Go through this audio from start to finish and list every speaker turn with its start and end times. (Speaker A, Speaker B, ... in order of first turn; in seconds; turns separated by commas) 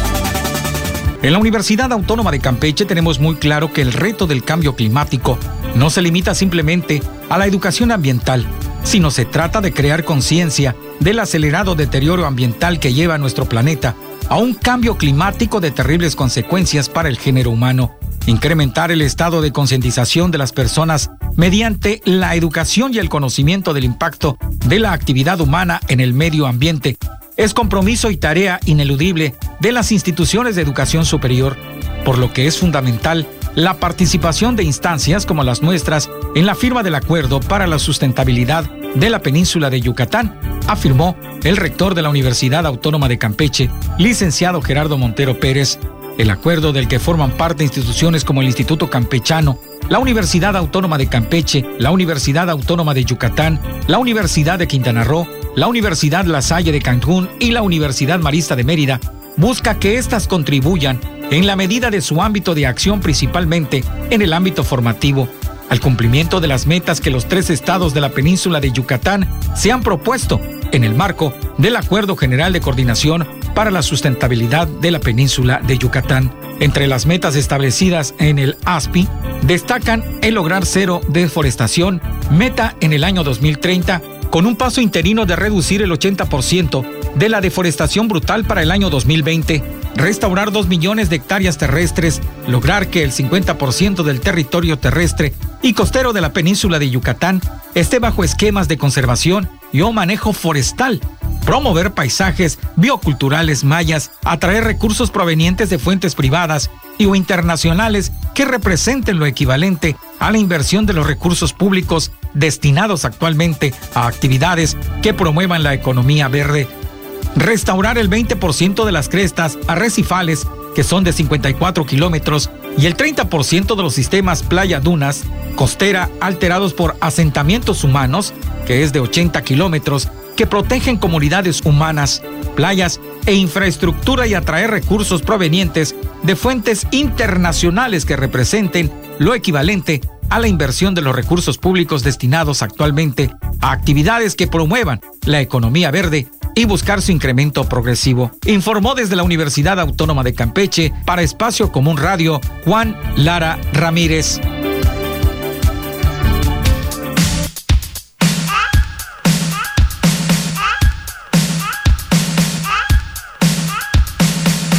Speaker A: 1.2-116.7, Speaker A: 117.4-154.4